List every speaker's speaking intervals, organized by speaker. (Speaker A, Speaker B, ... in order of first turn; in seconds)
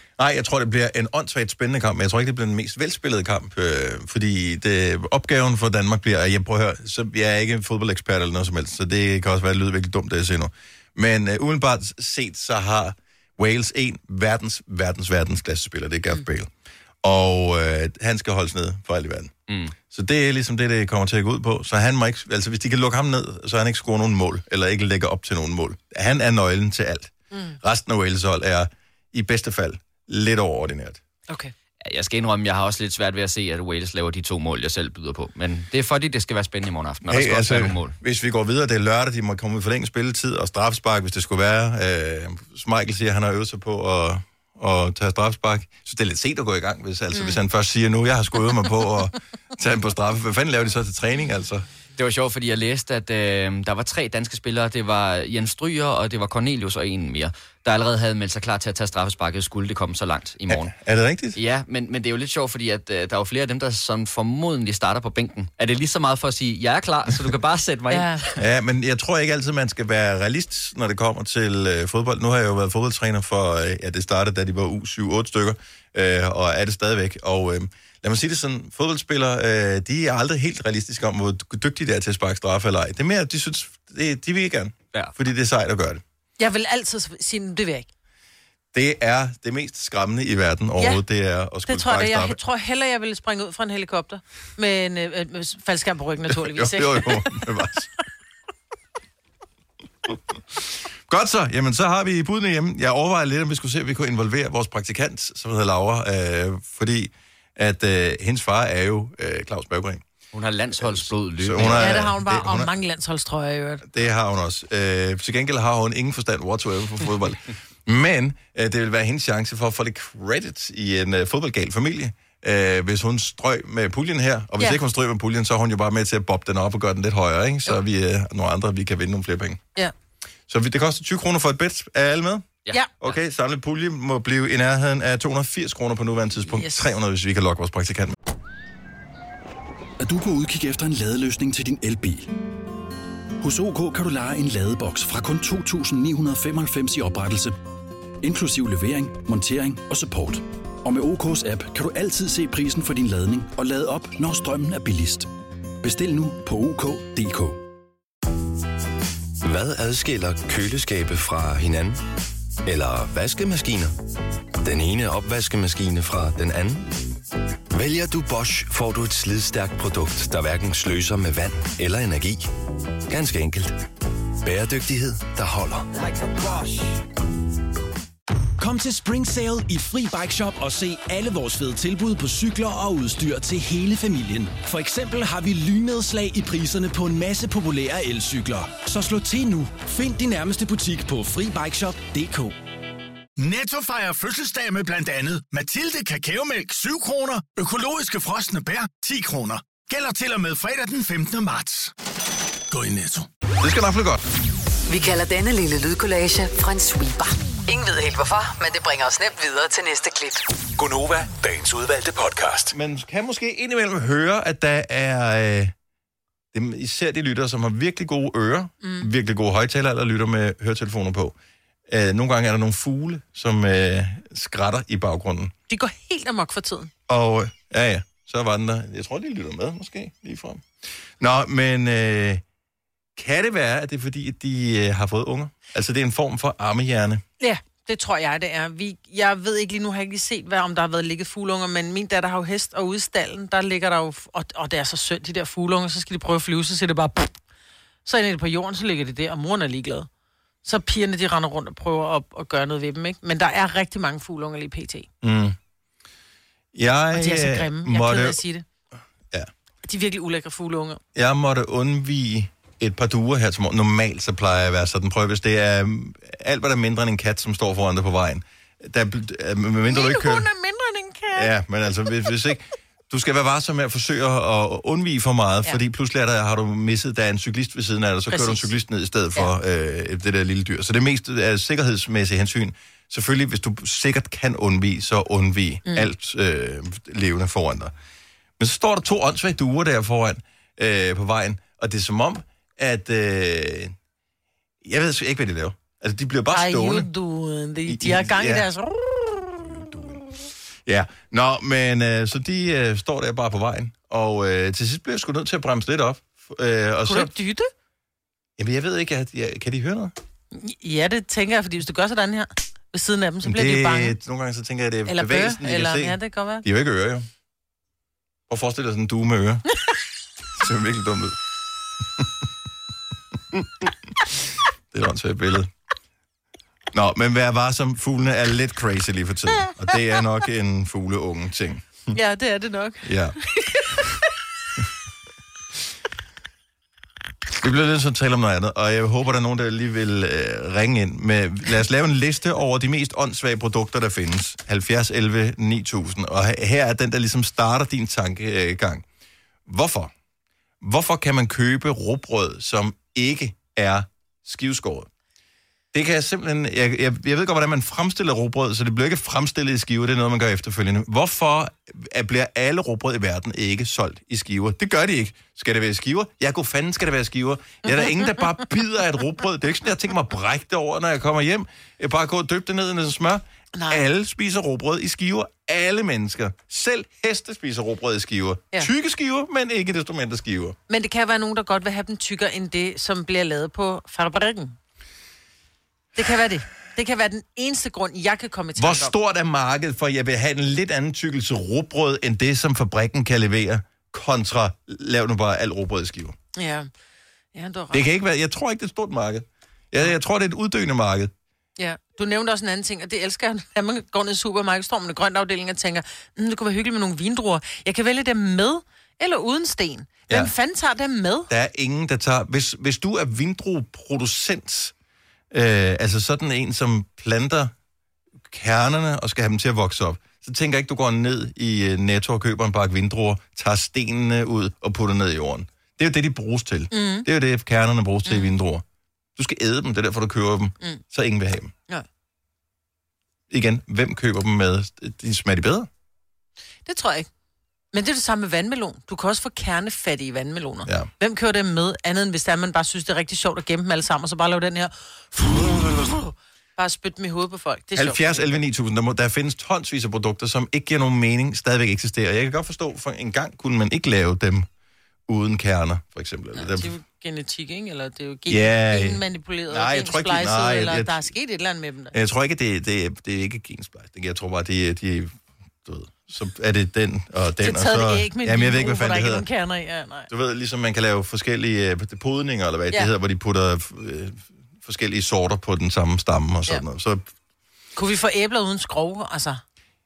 Speaker A: 0.2-16.5, 17.0-31.0, 37.1-51.6, 60.5-61.4, 68.4-86.0, 88.7-92.4, 96.3-97.9, 100.1-110.0, 110.8-112.7, 113.8-129.6, 130.5-138.2, 203.6-204.2, 212.7-215.7, 216.5-221.3, 221.9-225.5, 227.1-230.6, 231.2-232.4, 233.2-237.2, 255.2-255.6, 256.7-258.4, 261.1-270.5, 271.3-287.9, 288.6-293.9, 294.8-297.1, 297.9-298.7, 299.6-307.3, 308.6-310.1, 313.4-317.3, 318.5-319.6, 320.6-321.4, 323.5-325.7, 326.9-332.1, 333.0-333.4, 337.6-349.0, 349.6-350.1, 350.8-355.1, 355.9-380.8, 388.8-396.4, 397.9-401.3, 411.5-414.9, 415.5-417.7, 418.5-428.8, 429.4-431.7, 433.5-435.9, 447.9-454.7, 455.3-456.9, 458.5-461.3, 462.1-469.4, 470.3-477.3
Speaker B: 27.3-27.6, 47.1-47.4, 67.9-68.3, 86.4-87.9, 90.8-91.0, 91.7-97.4, 111.7-113.8, 136.5-136.8, 218.8-219.1, 225.7-226.9, 237.4-247.3, 248.0-250.1, 250.6-255.1, 257.1-258.6, 259.8-261.0, 269.9-271.5, 278.3-278.7, 296.5-299.4, 307.0-307.7, 310.5-314.1, 315.1-316.6, 332.1-334.2, 373.7-374.0, 380.9-384.8, 386.1-389.1, 396.5-396.9, 397.5-398.1, 401.8-411.5, 426.9-427.3, 428.2-428.5, 436.9-437.3, 437.9-448.6, 456.5-462.1, 467.6-470.3, 477.9-479.6
Speaker C: 31.8-37.9, 52.0-60.7, 61.3-68.4, 110.3-112.0, 132.7-133.2
Speaker D: 140.0-142.3, 143.4-147.6, 148.2-155.3, 155.8-157.6
Speaker E: 159.4-162.0, 162.6-163.9, 164.6-166.9, 167.7-172.5, 173.1-173.8, 174.4-175.9
Speaker F: 178.6-192.5
Speaker G: 193.4-201.9, 202.7-203.3, 211.6-212.6
Speaker H: 204.9-210.4